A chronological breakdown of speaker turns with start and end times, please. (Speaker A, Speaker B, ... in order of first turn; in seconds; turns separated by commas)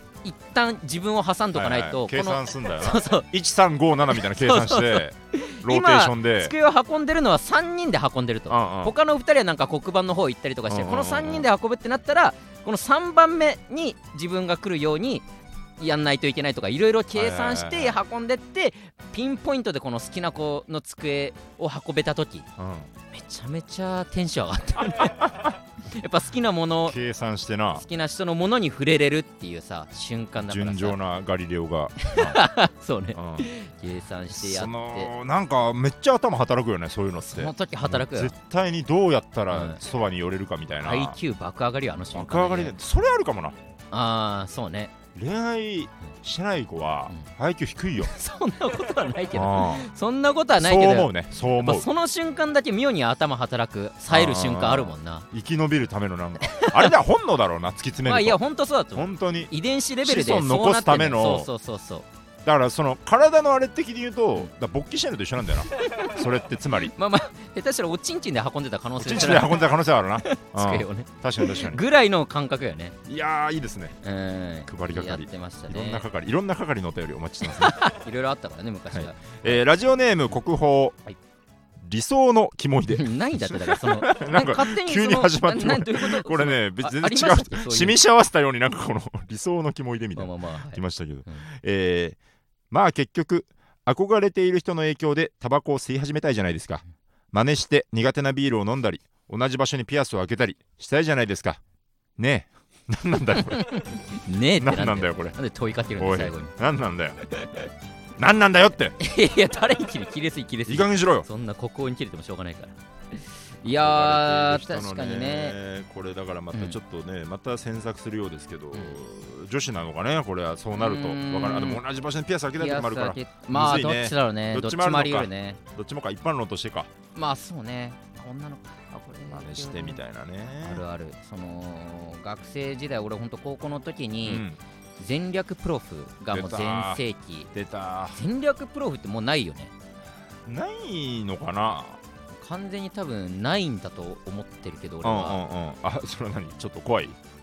Speaker A: 0.2-3.3, Speaker B: 1.6-6.5, Speaker A: 4.1-15.3, Speaker B: 8.5-8.9, Speaker B: 10.7-11.5, Speaker A: 15.8-22.5, Speaker B: 17.1-18.0, Speaker B: 22.6-22.9, Speaker A: 23.1-25.4, Speaker B: 25.0-25.6, Speaker A: 25.9-27.0, Speaker B: 26.9-27.9, Speaker A: 27.8-31.0, Speaker B: 30.4-32.5, Speaker A: 32.0-35.1, Speaker B: 33.1-33.5, Speaker B: 34.3-41.2, Speaker A: 37.2-38.3, Speaker A: 39.5-39.8, Speaker A: 40.8-42.8, Speaker B: 42.1-43.6, Speaker A: 43.9-45.0, Speaker B: 45.1-48.1, Speaker A: 48.0-55.3, Speaker B: 49.3-49.9, Speaker B: 50.6-51.9, Speaker B: 54.1-58.4, Speaker A: 56.4-57.0, Speaker A: 58.0-62.1, Speaker B: 59.0-59.5, Speaker B: 60.0-61.5, Speaker B: 62.4-66.9, Speaker A: 65.8-66.2, Speaker A: 66.8-69.7, Speaker B: 69.0-71.8, Speaker A: 70.2-73.0, Speaker B: 73.1-74.0, Speaker A: 74.0-76.0, Speaker B: 74.7-77.8, Speaker A: 77.4-79.6, Speaker B: 78.9-81.0, Speaker B: 81.8-92.2, Speaker A: 82.9-88.0, Speaker A: 90.2-91.5, Speaker B: 92.7-101.6, Speaker B: 102.2-103.8, Speaker A: 103.4-106.5, Speaker B: 104.6-105.4, Speaker B: 106.0-107.2, Speaker A: 107.3-107.7, Speaker B: 108.2-109.0, Speaker A: 109.0-112.8, Speaker B: 110.7-111.3, Speaker A: 113.6-115.6, Speaker B: 113.6-126.9, Speaker A: 116.5-116.8, Speaker A: 120.7-121.8, Speaker A: 122.6-125.6, Speaker A: 127.2-134.4, Speaker B: 129.3-130.8, Speaker B: 134.2-134.6, Speaker A: 135.0-137.5, Speaker B: 136.3-137.0, Speaker B: 137.5-138.2, Speaker A: 138.1-139.7, Speaker B: 140.5-142.0, Speaker A: 142.4-145.4, Speaker B: 145.0-147.2